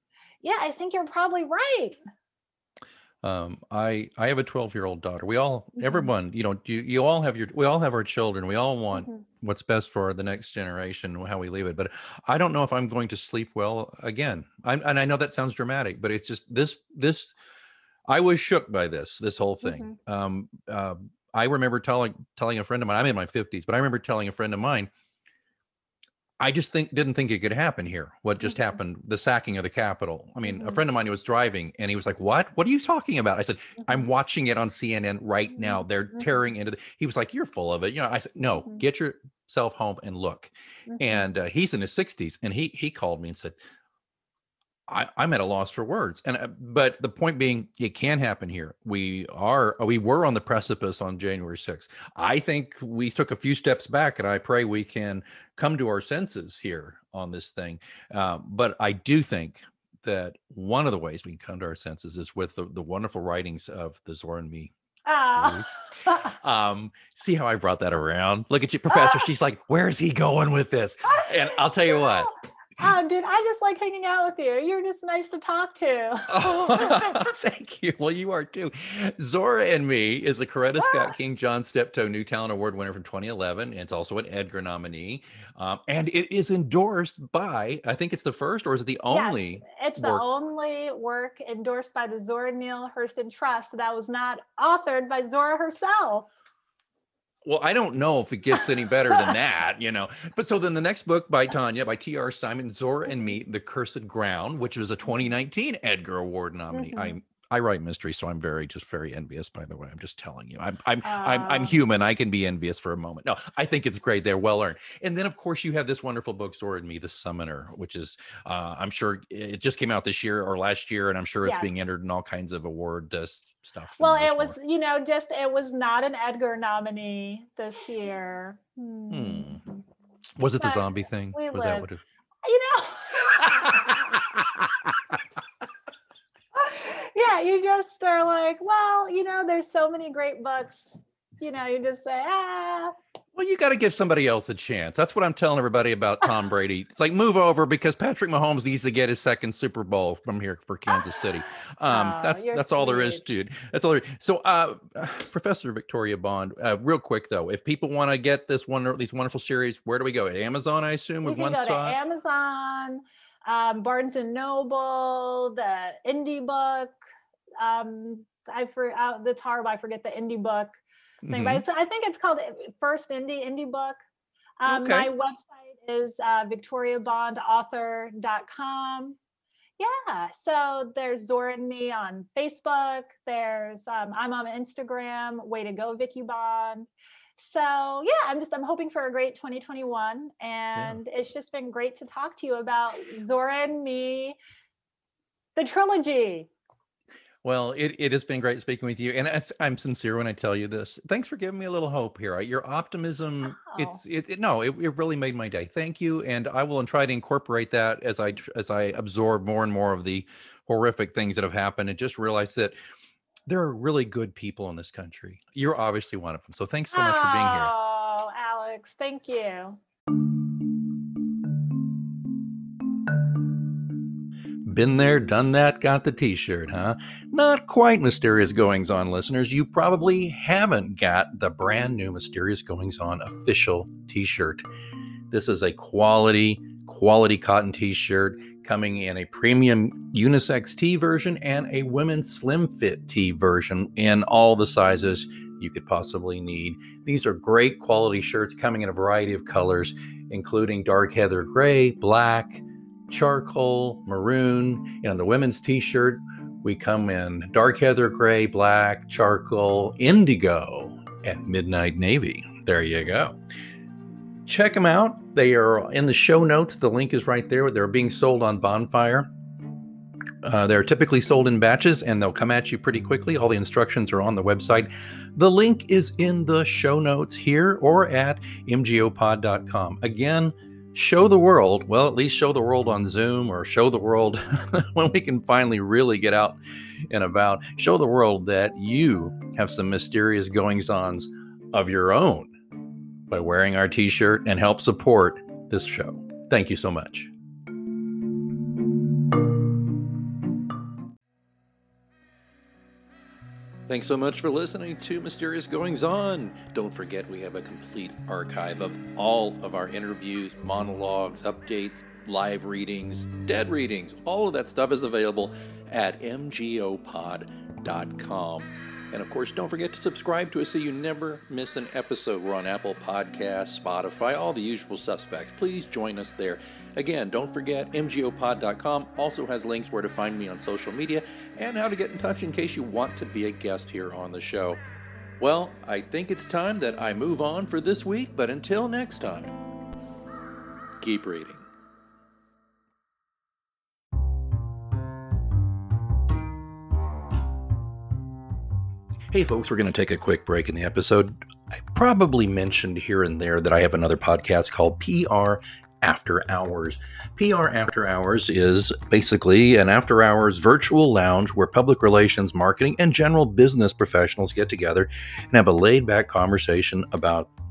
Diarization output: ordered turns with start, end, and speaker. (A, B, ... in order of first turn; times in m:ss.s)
0:00.4-0:02.0 A
0:03.2-0:17.3 B
0:05.8-0:06.1 A
0:08.9-0:09.2 A
0:18.1-0:24.9 B
0:19.6-0:19.9 A
0:26.4-0:43.6 B
0:30.5-0:30.8 A
0:40.9-0:41.2 A
0:44.9-1:12.3 B
1:05.1-1:06.3 A
1:08.9-1:09.3 A
1:11.0-1:17.2 A
1:16.3-1:30.2 B
1:20.8-1:21.1 A
1:29.1-1:36.3 A
1:37.4-2:04.6 B
1:46.7-1:47.2 A
1:51.0-1:51.8 A
2:01.4-2:01.7 A
2:04.0-2:09.8 A
2:09.1-2:09.6 B
2:10.4-2:12.0 B
2:10.6-2:11.9 A
2:12.4-2:14.2 A
2:13.4-2:14.9 B
2:16.5-2:22.9 A
2:23.3-2:42.0 B
2:31.0-2:33.2 A
2:41.2-2:46.9 A
2:47.6-2:50.8 A
2:51.2-2:51.6 B
2:51.3-2:54.0 A
2:54.6-2:59.2 A
2:54.6-2:55.1 B
2:59.8-3:14.4 A
3:10.8-3:11.0 B
3:15.6-3:16.5 A
3:17.4-3:32.8 B
3:23.6-3:24.0 A
3:33.4-3:37.7 B
3:36.9-3:39.8 A
3:44.6-3:54.6 B
3:55.3-4:23.4 B
4:24.4-4:29.3 B
4:30.4-4:46.6 B
4:47.1-4:52.5 B
4:53.3-4:57.3 B
5:03.9-5:34.8 B
5:35.4-5:39.6 B
5:41.0-5:41.7 B
5:49.3-6:07.5 B